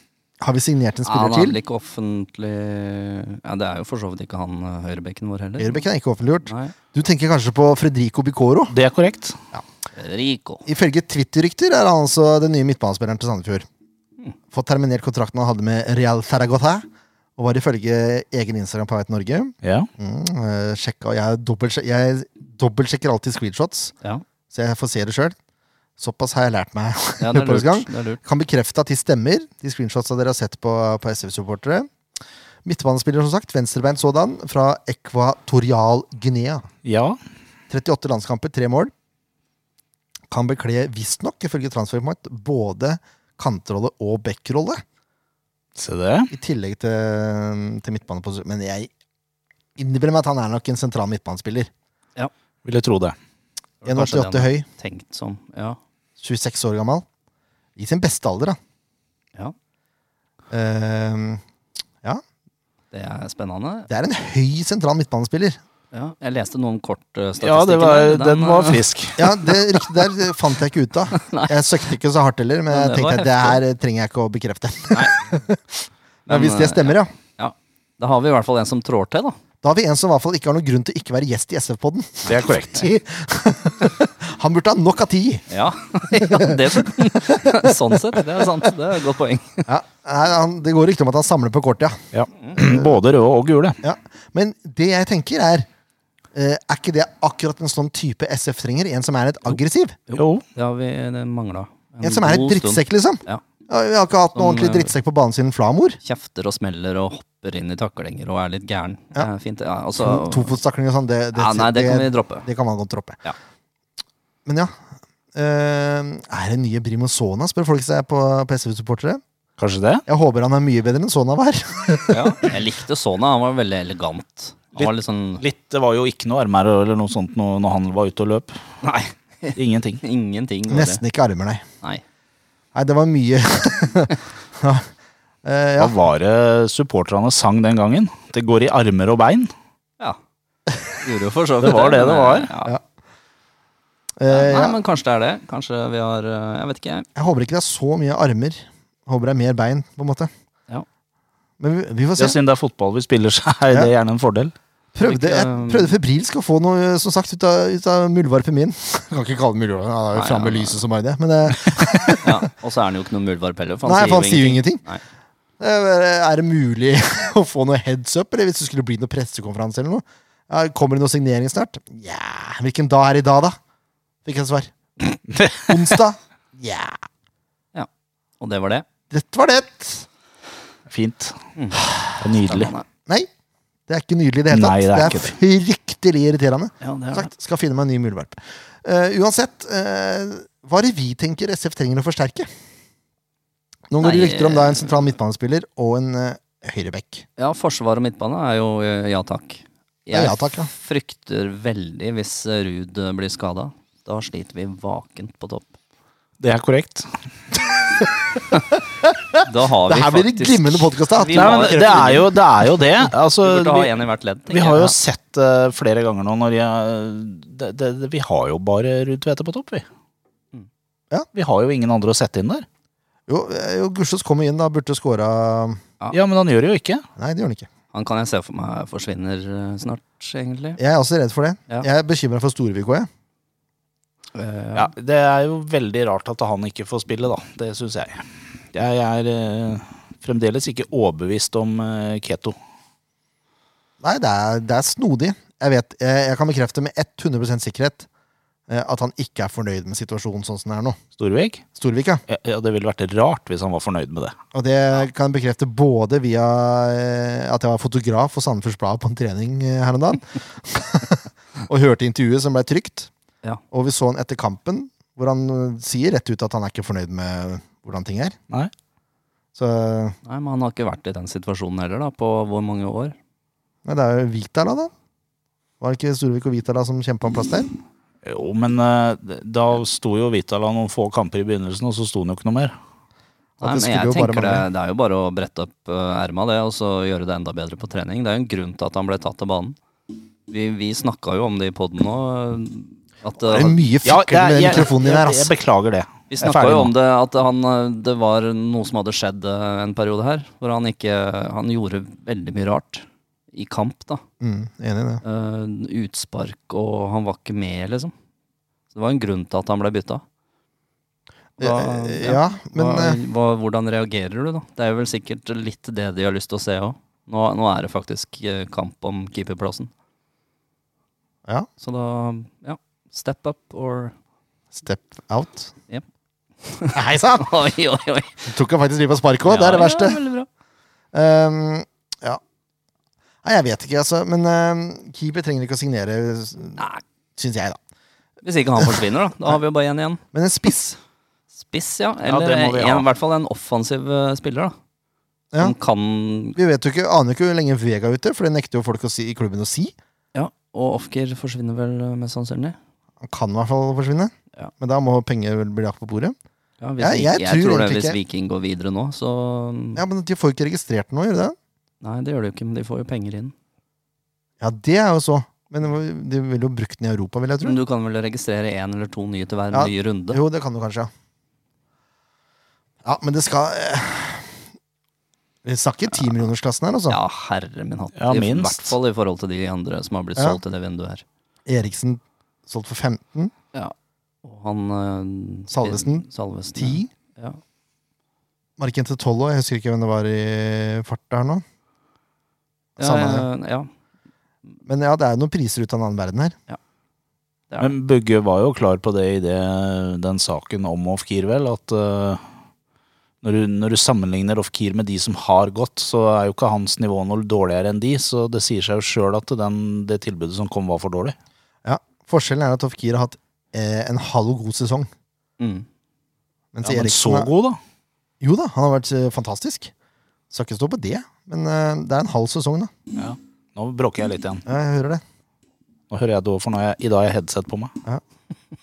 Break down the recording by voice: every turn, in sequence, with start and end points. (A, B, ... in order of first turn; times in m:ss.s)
0:00.4-0:01.6 A
0:01.0-0:05.8 B
0:05.6-0:08.8 A
0:06.4-0:06.7 B
0:08.7-0:09.4 C
0:09.9-0:10.6 B
0:10.6-0:13.7 A
0:14.5-0:23.9 A
0:19.6-0:19.9 C
0:24.5-0:25.4 A
0:26.0-0:31.9 A
0:27.2-0:28.2 B
0:32.6-0:36.7 A
0:36.8-0:37.2 C
0:37.7-0:38.9 A
0:40.3-0:44.8 A
0:45.8-0:46.3 C
0:46.3-0:48.9 A
0:49.8-0:51.7 A
0:52.6-0:53.2 C
0:53.8-0:55.8 B
0:53.9-0:54.6 A
0:56.2-0:57.0 A
0:57.8-0:58.6 A
1:00.5-1:01.4 A
1:02.9-1:03.9 B
1:03.9-1:05.6 A
1:05.9-1:08.8 B
1:07.4-1:09.3 C
1:09.2-1:17.1 A
1:11.1-1:11.6 B
1:12.7-1:13.6 B
1:16.3-1:19.4 B
1:19.6-1:25.4 A
1:22.2-1:22.8 C
1:25.5-1:29.7 B
1:26.1-1:28.7 A
1:29.6-1:32.0 A
1:32.1-1:33.8 C
1:32.6-1:32.9 A
1:33.8-1:35.7 A
1:36.3-1:40.0 A
1:40.1-1:43.4 B
1:40.2-1:40.4 C
1:42.0-1:46.0 A
1:44.3-1:44.9 B
1:46.0-1:50.5 B
1:50.0-1:53.2 A
1:51.3-1:52.5 B
1:54.4-1:54.7 A
1:55.3-1:59.2 A
1:59.6-2:00.0 C
2:00.1-2:02.5 A
2:02.1-2:05.4 B
2:04.8-2:08.6 C
2:08.8-2:11.0 B
2:09.6-2:10.0 C
2:10.7-2:11.6 A
2:12.7-2:14.9 A
2:15.4-2:16.0 A
2:15.8-2:19.5 C
2:21.0-2:22.7 B
2:21.6-2:22.5 C
2:24.2-2:24.8 A
2:24.3-2:27.1 B
2:27.1-2:30.3 A
2:31.6-2:32.4 A
2:32.2-2:34.5 C
2:34.9-2:42.3 A
2:35.0-2:35.9 B
2:40.1-2:40.8 B
2:42.2-2:45.0 B
2:43.8-2:44.8 A
2:45.6-2:53.6 A
2:54.2-2:57.0 A
2:55.4-2:55.6 C
2:58.4-2:58.8 B
2:59.1-3:00.0 A
3:00.9-3:01.3 C
3:01.6-3:01.8 B
3:01.8-3:02.2 A
3:02.2-3:02.7 C
3:02.4-3:02.8 B
3:03.9-3:12.5 A
3:04.5-3:05.3 C
3:06.8-3:07.3 B
3:13.9-3:17.2 A
3:14.0-3:15.1 B
3:17.4-3:25.7 B
3:20.1-3:20.7 A
3:26.4-3:27.1 C
3:29.0-3:32.4 A
3:29.4-3:32.2 B
3:31.3-3:33.9 C
3:33.4-3:34.9 B
3:34.5-3:39.8 C
3:41.3-3:42.6 C
3:43.3-3:45.8 A
3:46.1-3:47.0 C
3:47.2-3:47.7 A
3:47.9-3:50.8 B
3:50.8-3:53.1 A
3:54.3-3:54.9 B
3:54.7-4:02.6 C
4:04.0-4:08.1 A
4:08.7-4:11.0 A
4:11.2-4:11.6 C
4:11.7-4:12.2 A
4:12.3-4:14.4 C
4:14.5-4:23.1 A
4:23.7-4:28.4 A
4:29.5-4:30.2 A
4:30.2-4:33.2 B
4:33.8-4:34.9 A
4:35.8-4:37.7 A
4:38.2-4:42.7 C
4:43.6-4:44.6 A
4:43.6-4:49.8 B
4:50.5-4:53.8 B
4:53.5-4:55.5 A
4:54.0-4:56.9 C
4:56.3-5:04.2 B
5:04.4-5:05.2 A
5:05.2-5:08.1 B
5:08.9-5:10.2 B
5:11.6-5:13.2 A
5:11.6-5:19.9 B
5:21.8-5:24.1 B
5:24.7-5:25.7 A
5:26.6-5:28.4 B
5:26.9-5:27.5 A
5:28.4-5:30.2 A
5:29.4-5:30.5 B
5:31.1-5:32.4 A
5:33.4-5:36.8 A
5:36.8-5:37.0 B
5:37.4-5:37.8 A
5:38.4-5:40.2 B
5:40.3-5:41.0 A
5:41.6-5:44.7 B
5:42.2-5:43.1 C
5:45.6-5:46.6 B
5:46.6-5:49.9 A
5:50.3-5:52.8 B
5:53.2-5:56.4 A
5:56.8-6:00.0 B
5:57.0-5:58.2 A
5:59.9-6:01.6 A
6:02.0-6:03.5 B
6:04.6-6:07.8 A
6:07.6-6:10.4 B
6:09.7-6:11.1 A
6:13.0-6:14.5 A
6:15.6-6:17.2 A
6:17.1-6:21.2 B
6:18.2-6:18.9 C
6:21.6-6:23.5 A
6:23.7-6:27.6 B
6:25.7-6:27.1 A
6:28.8-6:31.6 A
6:33.0-6:33.5 A
6:33.0-6:33.9 B
6:34.8-6:36.6 A
6:37.8-6:42.4 C
6:43.4-6:51.3 C
6:51.8-6:55.1 A
6:55.6-6:55.8 B
6:56.7-6:57.5 A
6:56.8-6:57.8 C
6:58.4-6:59.9 A
7:00.5-7:02.9 A
7:03.2-7:04.6 C
7:04.6-7:05.2 A
7:06.1-7:07.9 C